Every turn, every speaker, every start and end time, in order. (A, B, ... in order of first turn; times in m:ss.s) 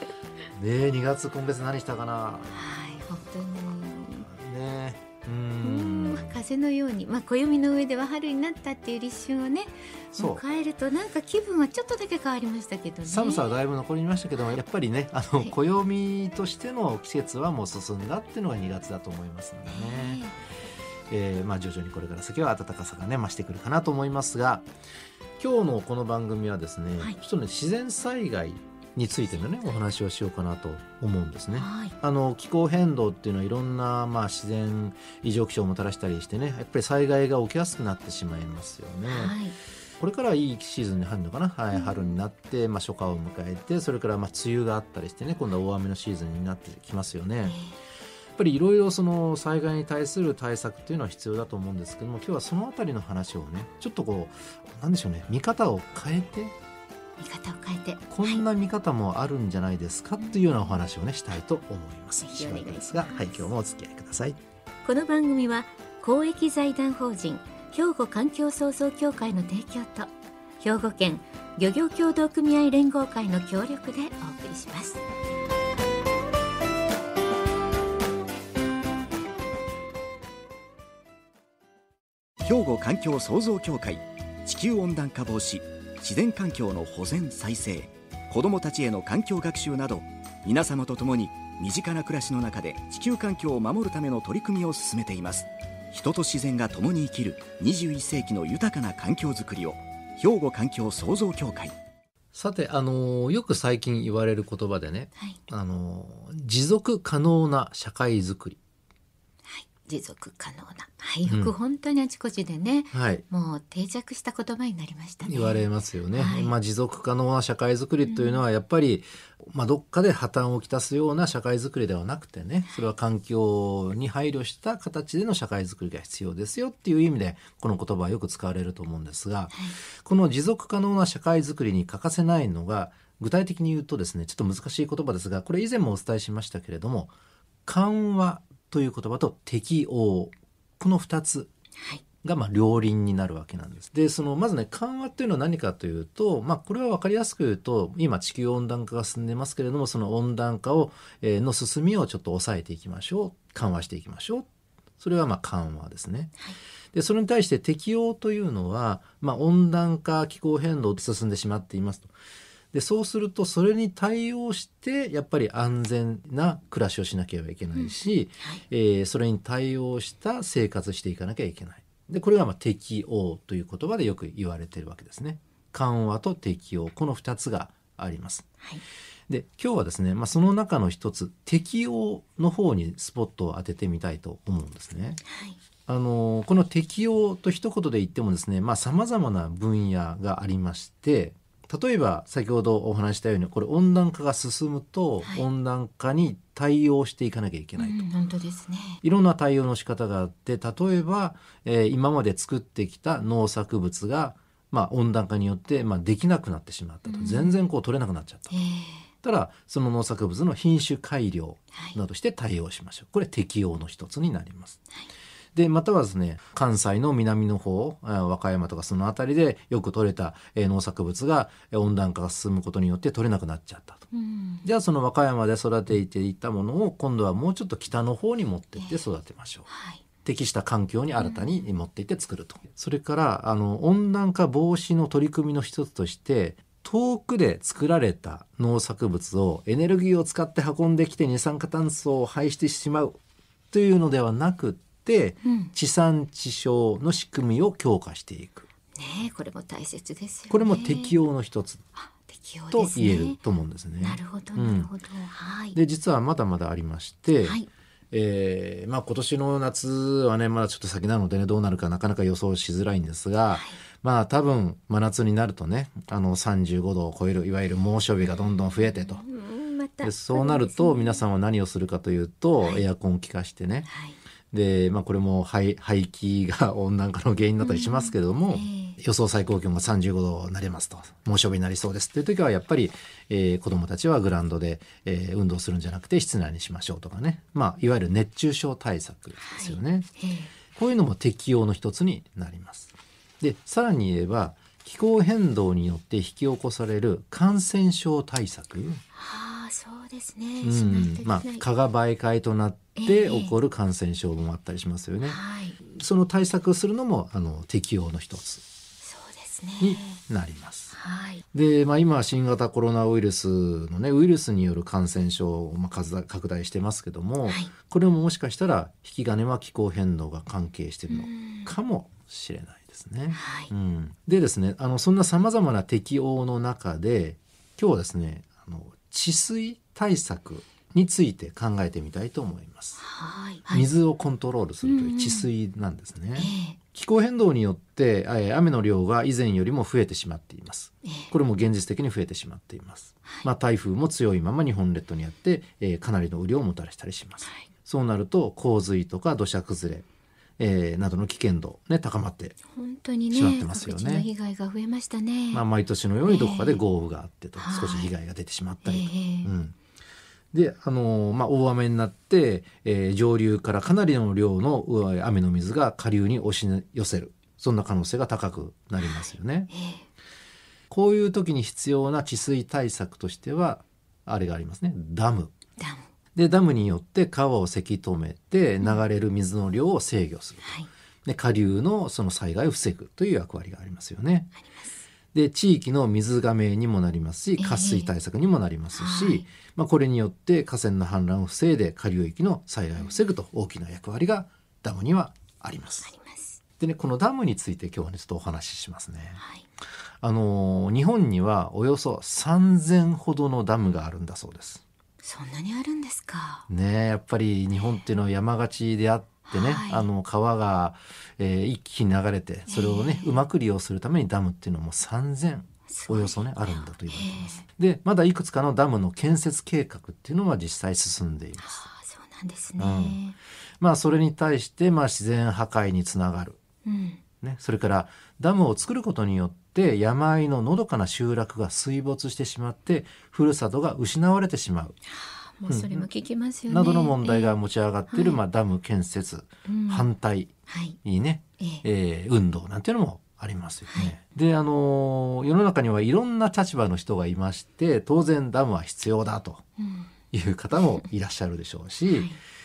0:00.6-0:02.7 A
0:02.5-0:04.3 B
0:04.2-0:06.4 A
0:05.6-0:13.4 B
0:10.1-0:10.4 A
0:13.1-0:20.2 A
0:19.7-0:20.4 B
0:21.1-0:24.6 A
0:25.4-0:39.4 A
0:31.5-0:32.0 B
0:39.1-0:39.6 B
0:40.0-0:47.6 A
0:41.8-0:42.1 B
0:47.5-0:47.8 B
0:48.4-0:56.5 A
0:57.2-0:58.4 B
0:58.1-1:04.4 A
1:02.2-1:03.5 B
1:04.8-1:15.0 B
1:22.4-1:41.7 C
1:42.3-1:48.6 A
1:49.5-1:56.6 B
1:51.3-1:51.5 A
1:52.9-1:53.2 A
1:55.2-2:17.1 A
1:58.1-1:58.4 B
2:17.7-2:21.5 A
2:22.2-2:34.5 A
2:35.0-2:36.3 A
2:36.9-2:42.1 A
2:42.7-2:58.5 A
2:47.8-2:48.6 B
2:59.3-3:05.2 A
3:05.3-3:05.6 B
3:05.9-3:18.1 A
3:17.8-3:19.0 B
3:19.0-3:28.5 A
3:27.1-3:27.6 B
3:28.5-3:29.1 B
3:29.2-3:34.8 A
3:35.6-3:44.1 A
3:44.1-3:44.7 B
3:44.6-3:49.7 A
3:48.8-3:49.0 B
3:49.7-3:50.0 B
3:50.2-4:03.2 A
3:51.2-3:51.6 B
4:03.7-4:08.7 A
4:05.4-4:05.7 B
4:09.0-4:11.2 B
4:10.5-4:11.8 A
4:12.0-4:13.4 B
4:12.7-4:14.9 A
4:14.0-4:15.8 B
4:15.8-4:17.6 A
4:17.4-4:17.7 B
4:18.1-4:29.2 A
4:23.5-4:23.8 B
4:28.8-4:31.2 B
4:30.0-4:33.9 A
4:33.9-4:34.2 B
4:34.5-4:50.1 A
4:37.6-4:39.0 B
4:49.4-4:50.5 B
4:50.7-4:59.0 A
4:59.1-5:01.6 B
5:00.6-5:08.6 A
5:03.0-5:03.5 B
5:05.2-5:05.8 B
5:09.0-5:10.2 B
5:09.8-5:11.0 A
5:11.0-5:11.4 B
5:11.5-5:33.0 A
5:21.1-5:21.7 B
5:23.3-5:23.7 B
5:33.0-5:33.9 B
5:33.7-5:50.1 A
5:34.8-5:35.5 B
5:36.4-5:36.8 B
5:41.0-5:41.3 B
5:50.6-5:52.6 A
5:52.7-5:55.6 B
5:53.3-5:54.3 A
5:55.5-5:59.8 A
5:56.3-5:56.8 B
5:57.6-5:58.1 B
5:58.8-5:59.5 B
6:00.5-6:09.7 A
6:09.0-6:10.0 B
6:10.9-6:15.5 A
6:15.8-6:16.0 B
6:16.4-6:20.7 A
6:20.6-6:20.9 B
6:21.2-6:24.5 A
6:24.7-6:25.0 B
6:25.3-6:36.1 A
6:27.6-6:28.1 B
6:28.9-6:29.5 B
6:36.0-6:36.6 B
6:36.8-6:39.4 A
6:39.4-6:39.6 B
6:40.2-6:44.8 A
6:45.2-6:46.7 B
6:46.7-7:01.8 A
6:49.5-6:50.1 B
6:52.7-6:53.4 B
6:55.9-6:57.6 B
7:01.6-7:03.4 B
7:02.8-7:03.2 A
7:03.8-7:06.6 A
7:06.8-7:07.2 B
7:07.4-7:15.0 A
7:15.1-7:17.6 B
7:15.7-7:16.1 A
7:16.7-7:20.5 A
7:18.1-7:18.4 B
7:19.7-7:20.1 B
7:20.7-7:21.0 B
7:21.0-7:29.6 A
7:29.8-7:30.1 B
7:30.3-7:32.3 A
7:32.1-7:32.4 B